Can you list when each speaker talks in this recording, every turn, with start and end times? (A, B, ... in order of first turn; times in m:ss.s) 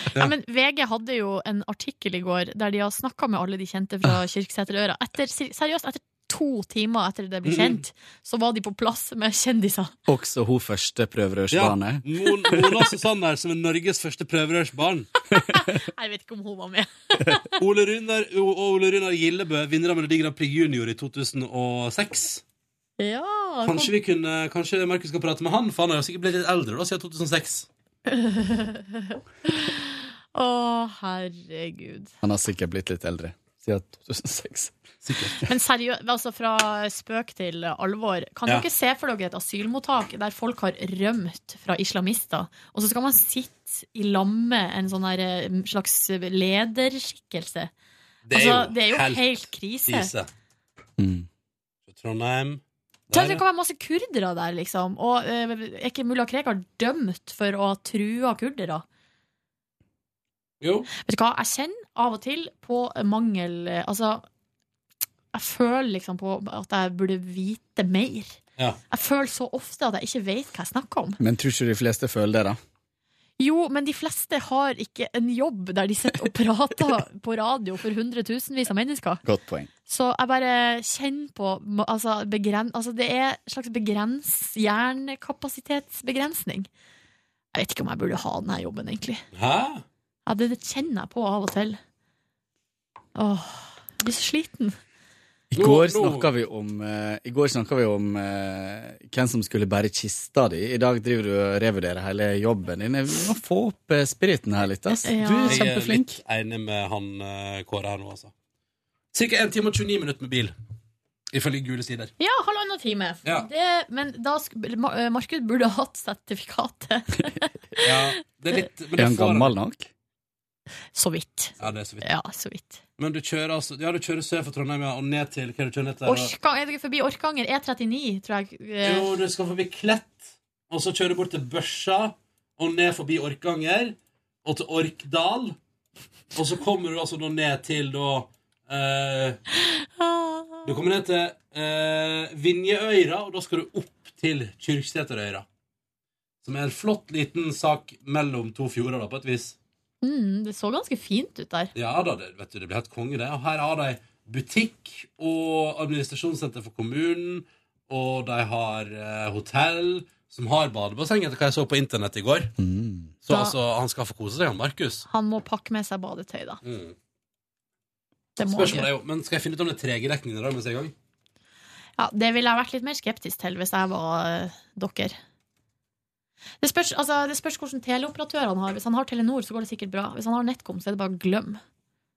0:00.1-0:09.9 A
0:07.4-0:07.8 B
0:10.1-0:12.9 C
0:11.5-0:15.1 B
0:15.3-0:17.6 A
0:17.6-0:22.4 B
0:23.0-0:23.9 A
0:23.6-0:27.7 B
0:28.1-0:32.1 A
0:32.2-0:34.8 C
0:35.0-0:35.4 B
0:35.3-0:47.7 A
0:48.2-0:50.3 B
0:48.3-0:50.1 A
0:51.0-0:51.3 C
0:51.9-0:53.4 B
0:53.1-0:58.8 A
1:00.6-1:00.9 B
1:01.0-1:04.2 A
1:05.3-1:08.4 A
1:08.9-1:11.2 A
1:11.2-1:12.6 C
1:13.4-1:19.2 A
1:19.2-1:19.7 C
1:19.9-1:26.7 A
1:27.5-1:29.2 A
1:29.3-1:29.8 B
1:30.2-1:31.8 A
1:33.2-1:34.8 A
1:35.5-1:46.2 C
1:35.6-1:36.3 B
1:44.9-1:45.6 A
1:45.5-1:48.3 B
1:49.1-1:50.5 B
1:51.3-1:52.1 B
1:52.2-1:57.9 A
1:57.8-1:59.5 B
1:59.0-1:59.9 C
2:00.9-2:02.8 A
2:01.6-2:02.0 B
2:03.0-2:06.3 B
2:06.0-2:09.1 A
2:08.8-2:15.6 B
2:16.3-2:19.4 B
2:19.7-2:20.7 A
2:20.6-2:25.4 B
2:26.4-2:29.6 B
2:30.0-2:31.7 A
2:31.7-2:42.5 B
2:42.6-2:43.2 C
2:43.2-2:45.0 B
2:43.3-2:43.5 A
2:45.1-2:46.6 A
2:46.6-2:47.0 B
2:48.4-2:48.9 A
2:48.4-2:50.9 B
2:52.0-2:55.2 A
2:56.6-3:01.6 A